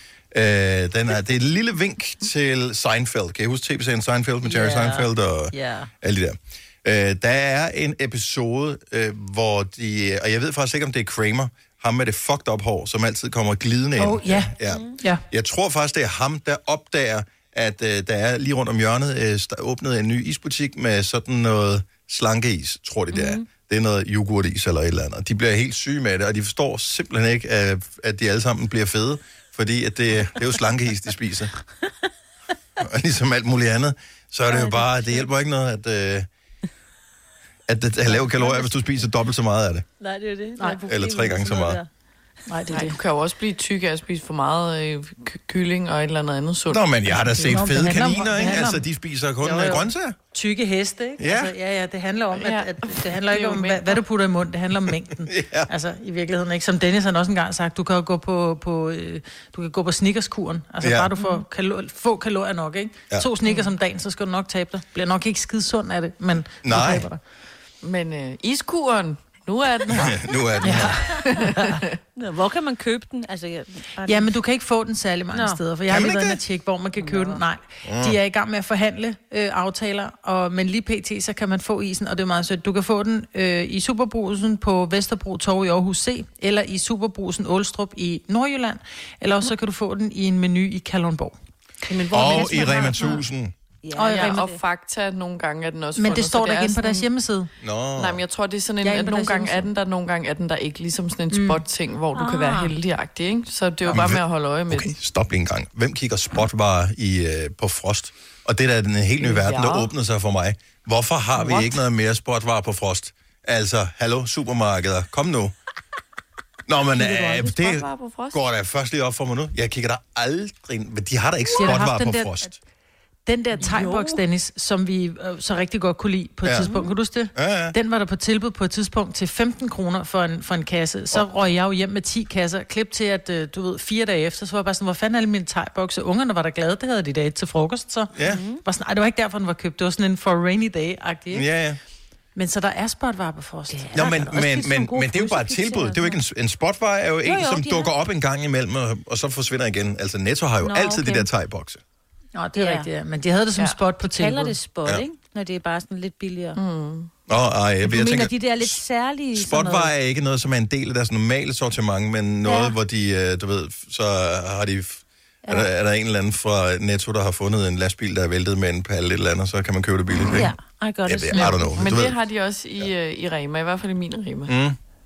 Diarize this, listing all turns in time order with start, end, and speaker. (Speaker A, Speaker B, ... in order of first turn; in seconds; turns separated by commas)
Speaker A: 0.3-31.5, Speaker B: 4.4-5.9, Speaker C: 14.0-15.2, Speaker B: 14.7-14.9, Speaker B: 23.1-23.4, Speaker A: 32.8-36.3, Speaker B: 34.5-35.3, Speaker A: 37.7-39.9, Speaker B: 38.1-38.9, Speaker B: 40.0-41.9, Speaker A: 40.9-41.8, Speaker C: 42.5-43.0, Speaker D: 42.7-46.9, Speaker A: 46.7-50.2, Speaker C: 47.4-48.9, Speaker C: 49.4-67.2, Speaker A: 51.2-51.5, Speaker D: 52.3-54.0, Speaker A: 55.2-55.7, Speaker A: 60.8-61.1, Speaker A: 66.6-67.1, Speaker D: 67.8-70.2, Speaker A: 69.9-71.1, Speaker C: 70.6-71.1, Speaker D: 71.2-72.0, Speaker B: 72.2-74.3, Speaker C: 74.1-91.4, Speaker B: 75.3-75.6, Speaker A: 75.9-76.4, Speaker B: 77.0-77.4, Speaker A: 77.8-78.2, Speaker B: 91.9-93.2, Speaker A: 92.1-93.5, Speaker C: 92.4-92.9, Speaker B: 93.8-94.6, Speaker C: 94.0-94.5, Speaker D: 94.1-97.1, Speaker C: 96.0-97.5, Speaker A: 97.6-98.2, Speaker D: 98.0-104.9, Speaker C: 98.8-99.7, Speaker C: 101.3-101.6, Speaker B: 102.1-102.7, Speaker A: 103.9-115.5, Speaker D: 109.2-109.9, Speaker D: 111.4-111.8, Speaker A: 116.7-122.6, Speaker D: 116.9-118.4, Speaker C: 121.6-122.5, Speaker C: 123.3-141.5, Speaker B: 123.7-124.1, Speaker A: 126.4-126.7, Speaker A: 127.3-127.8, Speaker A: 138.1-138.4, Speaker B: 138.2-138.6, Speaker A: 141.3-141.8, Speaker C: 142.3-144.1, Speaker B: 143.7-146.2, Speaker A: 143.9-151.8, Speaker B: 147.2-147.9, Speaker B: 150.6-151.3, Speaker C: 152.3-154.6, Speaker B: 152.6-152.9, Speaker B: 154.1-156.6, Speaker D: 156.6-157.1, Speaker A: 157.3-158.8, Speaker B: 157.8-159.9, Speaker A: 159.3-170.5, Speaker B: 162.4-162.8, Speaker B: 170.3-171.8, Speaker A: 171.1-172.2, Speaker D: 171.8-174.5, Speaker A: 174.5-174.8